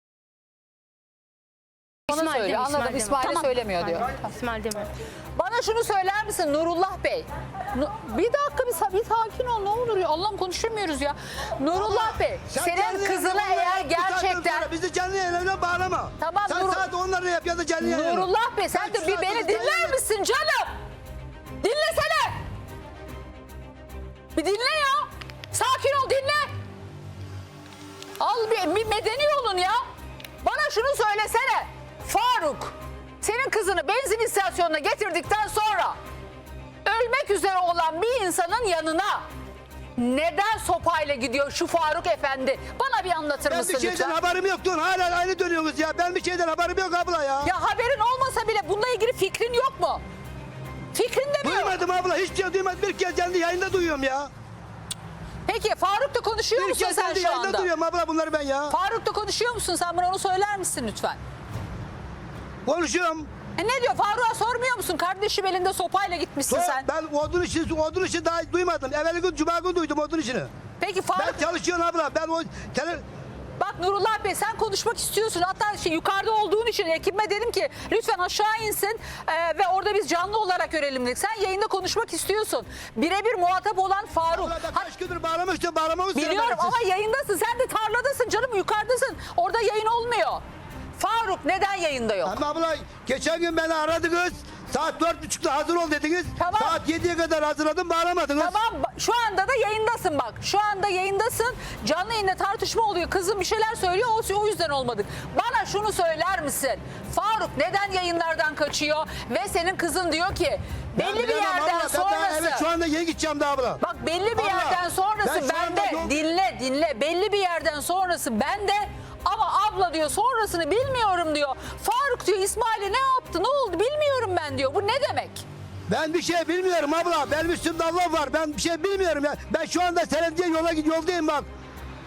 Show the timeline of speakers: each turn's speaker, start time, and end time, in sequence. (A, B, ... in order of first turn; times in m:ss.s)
0:02.1-0:04.2 A
0:02.1-0:04.9 B
0:05.4-0:14.7 A
0:11.7-0:20.0 C
0:16.2-0:16.9 A
0:17.8-0:20.7 A
0:21.6-0:22.4 A
0:24.3-0:26.5 A
0:28.2-0:29.8 A
0:30.4-0:36.0 A
0:36.8-0:39.2 A
0:40.0-0:44.2 A
0:43.4-0:47.5 C
0:47.4-0:50.0 A
0:50.9-0:51.8 A
0:51.4-0:54.3 C
0:55.4-0:57.7 A
0:56.6-0:58.7 C
0:58.7-1:01.2 A
1:02.6-1:03.3 C
1:03.6-1:06.8 A
1:06.5-1:10.5 C
1:10.8-1:11.4 A
1:11.2-1:13.0 C
1:13.6-1:24.9 A
1:24.3-1:26.8 C
1:26.1-1:30.4 A
1:31.0-1:32.4 A
1:32.2-1:38.6 C
1:36.4-1:36.8 A
1:38.4-1:52.6 A
1:51.0-1:53.8 C
1:53.8-2:05.4 A
1:54.4-1:56.1 C
2:05.9-2:11.5 C